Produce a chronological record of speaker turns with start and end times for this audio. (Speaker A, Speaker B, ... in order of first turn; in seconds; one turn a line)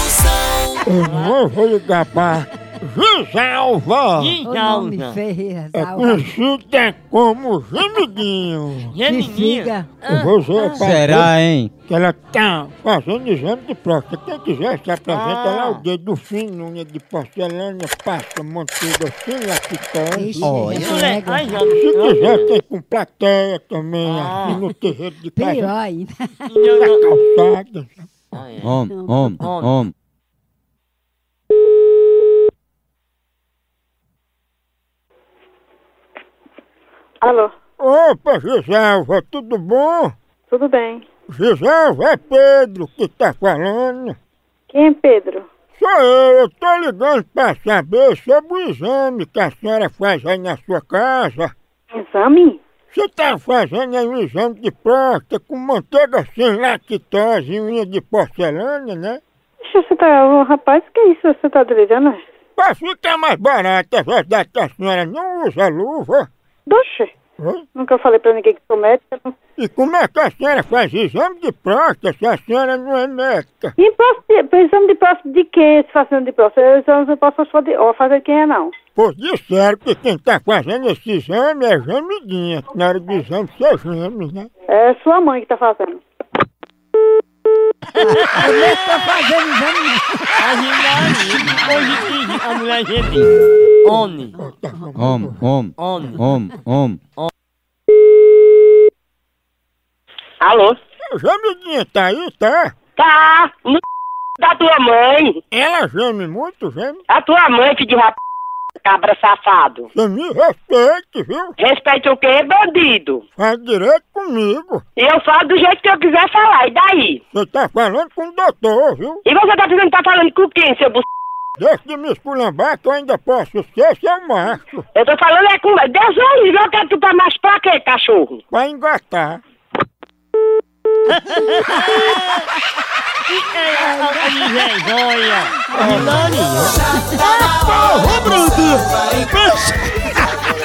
Speaker A: 0.4-1.3
Speaker B: 0.8-4.4
Speaker A: 4.2-5.2
Speaker C: 4.4-6.3
Speaker B: 5.7-8.9
Speaker A: 8.9-10.3
Speaker C: 9.0-9.9
Speaker B: 10.1-11.3
Speaker C: 10.6-10.9
Speaker D: 10.7-11.7
Speaker B: 11.8-20.9
Speaker A: 15.1-15.8
Speaker C: 20.1-21.7
Speaker D: 20.4-20.7
Speaker A: 20.7-22.5
Speaker B: 21.6-25.7
Speaker A: 24.0-24.6
Speaker C: 25.2-26.5
Speaker A: 26.5-27.0
Speaker B: 26.7-28.1
Speaker A: 28.3-28.8
Speaker D: 28.6-29.9
Speaker C: 28.9-29.3
Speaker A: 29.4-29.7
Speaker E: 37.2-37.5
Speaker B: 37.8-40.1
Speaker E: 40.5-41.0
Speaker B: 41.3-44.1
Speaker E: 44.7-45.5
Speaker B: 45.7-51.5
Speaker E: 51.9-52.6
Speaker B: 52.9-59.2
Speaker E: 59.6-62.2
Speaker B: 62.6-66.3
Speaker E: 66.7-67.1
Speaker B: 67.4-67.6
Speaker E: 67.8-69.3
Speaker B: 69.6-73.7
Speaker E: 73.8-78.7
Speaker B: 78.9-84.5
Speaker E: 84.7-86.0
Speaker A: 88.0-89.1
Speaker C: 88.0-91.0
Speaker A: 90.4-93.3
Speaker A: 93.8-94.4
Speaker B: 94.4-95.4
Speaker D: 95.0-97.0
Speaker A: 95.8-96.2
Speaker F: 100.4-100.8
Speaker B: 101.1-102.7
Speaker F: 103.0-103.8
Speaker F: 104.4-105.4
Speaker B: 105.5-107.0
Speaker F: 107.1-108.2
Speaker F: 108.8-109.8
Speaker B: 109.9-111.5
Speaker F: 111.6-113.2
Speaker B: 113.3-114.8
Speaker F: 115.0-117.2
Speaker B: 117.3-119.2
Speaker F: 119.2-121.0
Speaker B: 121.6-124.8
Speaker F: 125.0-128.4
Speaker B: 128.5-129.4
Speaker A: 131.1-132.5
Speaker A: 133.2-136.8
Speaker B: 135.7-136.2
Speaker B: 137.2-140.2